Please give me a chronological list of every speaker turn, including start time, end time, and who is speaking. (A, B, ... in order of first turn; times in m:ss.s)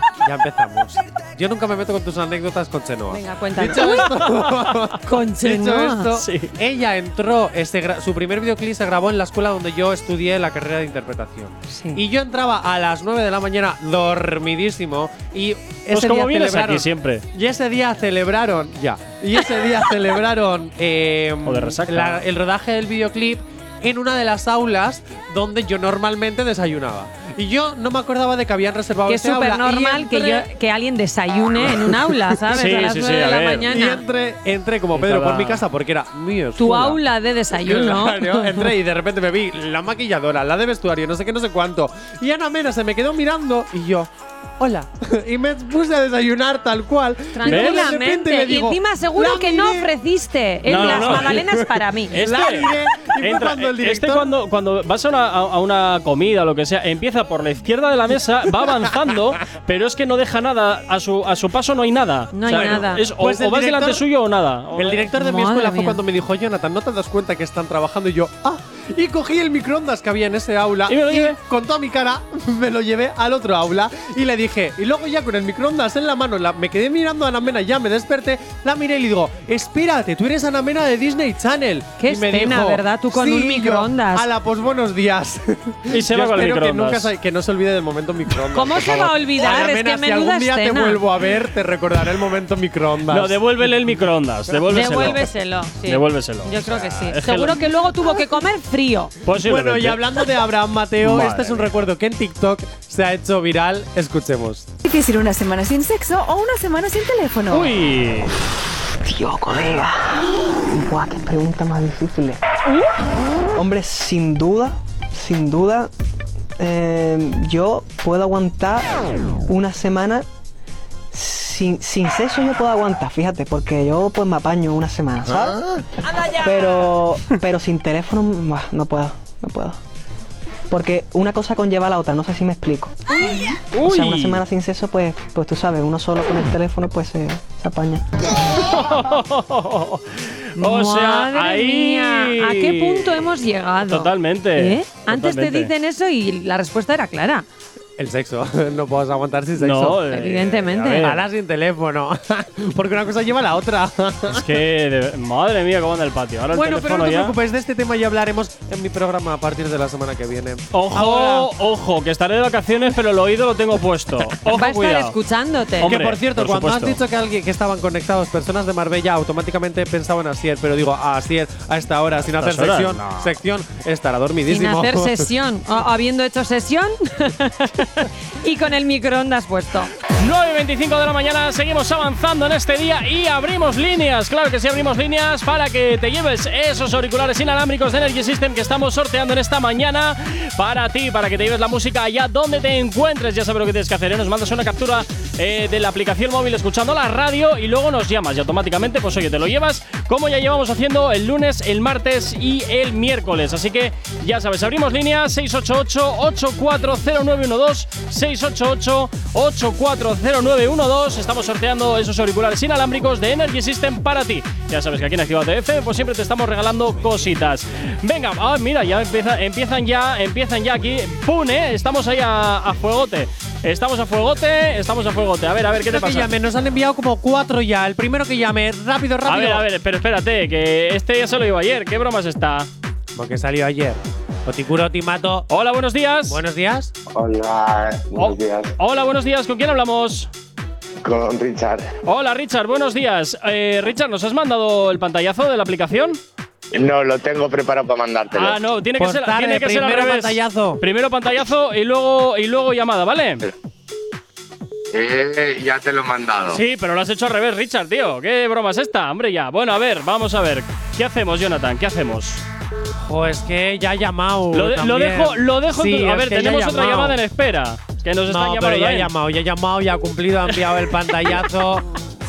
0:00.2-0:30.4 A
0:03.1-0:04.2 B
0:04.1-0:04.6 C
0:05.0-0:06.1 B
0:06.1-0:06.5 C
0:11.7-0:12.0 B
0:15.9-0:17.2 C
0:21.4-0:22.2 C
0:29.1-0:34.0 B
0:32.5-0:33.7 C
0:33.7-0:37.0 A
0:34.9-0:35.6 C
0:36.6-0:38.7 B
0:37.5-0:49.9 A
0:47.3-0:52.2 B
0:47.4-0:48.0 C
0:50.6-0:51.5 C
0:50.7-0:54.3 A
0:52.1-1:05.1 C
1:02.3-1:03.0 B
1:02.5-1:04.0 A
1:04.7-1:33.4 A
1:05.1-1:06.0 B
1:10.9-1:11.4 C
1:22.0-1:24.3 B
1:25.9-1:27.1 C
1:28.5-1:31.0 B
1:33.1-1:35.3 C
1:34.7-1:39.1 B
1:35.8-1:37.6 C
1:39.2-1:40.0 C
1:39.3-1:44.7 A
1:41.0-1:41.6 C
1:44.8-1:47.7 D
1:47.5-1:48.3 C
1:49.0-1:52.4 E
1:53.5-1:55.9 E
1:56.6-2:00.2 E
2:01.1-2:05.6 E
2:06.4-2:09.8 E
2:10.7-2:13.0 E
2:13.7-2:14.4 C
2:13.8-2:18.0 E
2:18.5-2:23.2 C
2:20.6-2:27.4 B
2:23.8-2:25.7 C
2:28.0-2:30.0 A
2:29.6-2:31.2 C
2:30.1-2:31.1 B
2:31.0-2:34.5 A
2:34.3-2:37.4 C
2:36.5-2:41.5 A
2:40.7-2:45.1 C
2:44.5-2:45.9 B
2:45.8-2:47.0 C
2:45.8-2:55.3 A
2:52.3-2:53.3 C
2:54.5-2:59.9 B
3:00.2-3:46.3 C
3:45.8-3:49.6 A
3:49.2-3:52.7 C
3:53.1-3:55.5 A
3:55.5-3:56.4 C
3:56.3-3:56.9 A
3:57.1-3:58.7 F
3:58.1-4:00.3 C
4:01.0-4:01.9 F
4:02.0-4:06.2 C
4:06.7-4:08.6 F
4:08.3-4:13.4 C
4:09.0-4:10.8 A
4:14.9-4:16.6 F
4:16.5-4:22.4 C
4:23.0-4:27.2 A
4:24.5-4:29.1 C
4:28.3-4:31.8 A